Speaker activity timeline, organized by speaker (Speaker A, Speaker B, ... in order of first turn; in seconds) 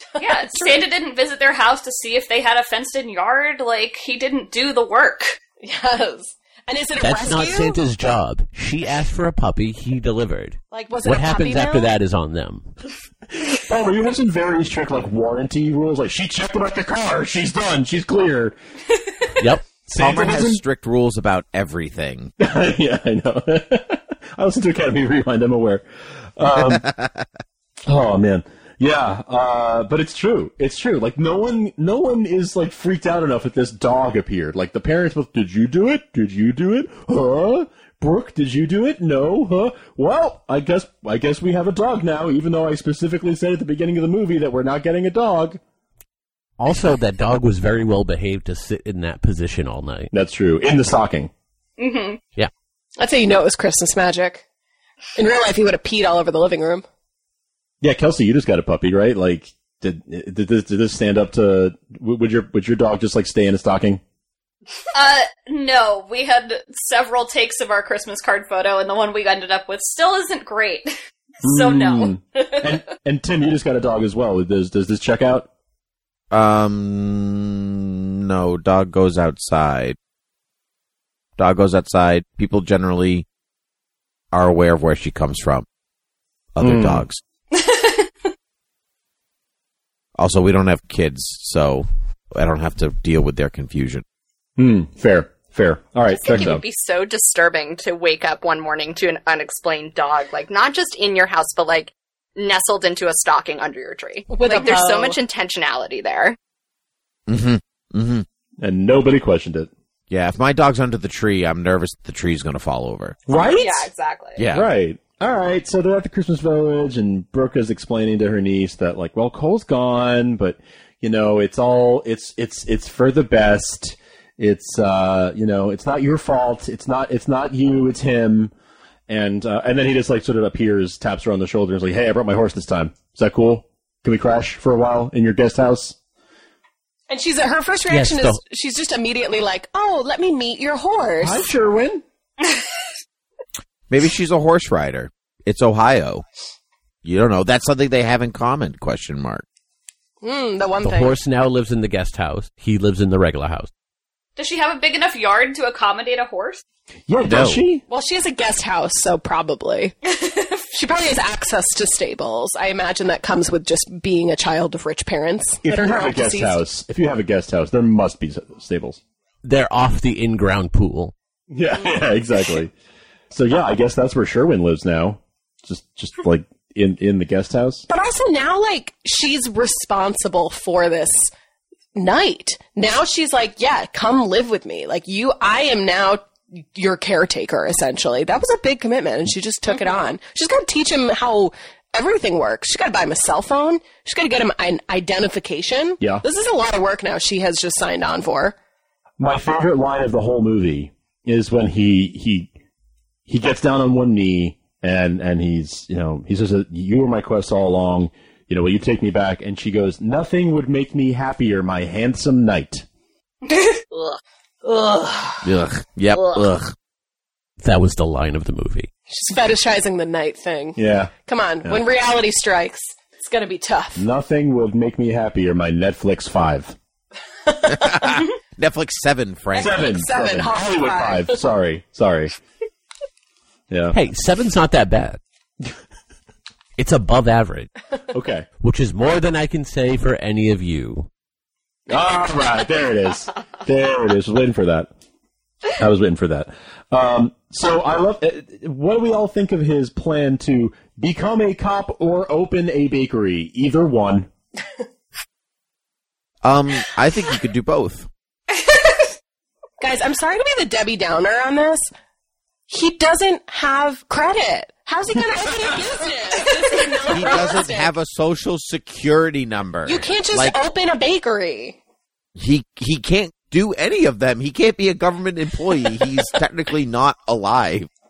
Speaker A: 0.1-0.8, 5.6-7.8, 10.7-11.9, 53.0-54.4, 55.2-56.9, 104.3-105.2, 137.1-141.5, 150.2-151.1, 157.9-160.0, 160.7-166.6, 177.9-181.3, 181.9-198.6, 219.1-224.1, 227.5-228.1, 229.7-231.4, 259.8-261.9, 262.7-267.9, 269.9-271.8
Speaker B: 0.2-5.4, 51.8-52.2, 64.9-72.8, 87.5-88.1, 154.4-156.6
Speaker C: 7.0-12.7, 19.4-19.8, 46.6-50.1, 137.9-138.4, 150.8-153.7, 169.4-171.1, 217.6-218.9, 233.9-235.2, 236.8-237.7, 238.6-241.1
Speaker D: 13.3-18.6, 19.9-20.6, 22.4-25.9, 26.4-26.9, 27.9-45.6, 50.1-51.3, 57.8-64.0, 71.4-75.5, 86.6-87.0, 94.6-96.6, 108.6-109.7, 113.3-113.9, 114.5-128.5, 129.1-136.0, 141.2-142.0, 157.1-157.8, 165.6-169.0, 171.5-172.7, 173.3-177.8, 199.2-202.5, 203.3-212.8, 220.8-221.8, 224.0-226.8, 229.6-232.3, 233.7-234.0, 238.1-238.5, 241.9-244.9, 245.8-254.3
Speaker E: 20.0-22.3, 26.5-27.3, 76.3-80.0, 81.4-83.3, 84.3-85.7, 86.5-87.2, 90.2-94.0, 107.3-108.3, 110.1-113.2, 114.4-114.7, 143.9-146.2, 147.0-149.4, 157.3-157.6, 215.4-216.7, 227.7-229.9, 256.4-258.1, 267.1-270.6, 272.4-277.9
Speaker F: 96.1-106.4, 113.3-114.5, 213.9-215.0, 216.1-216.4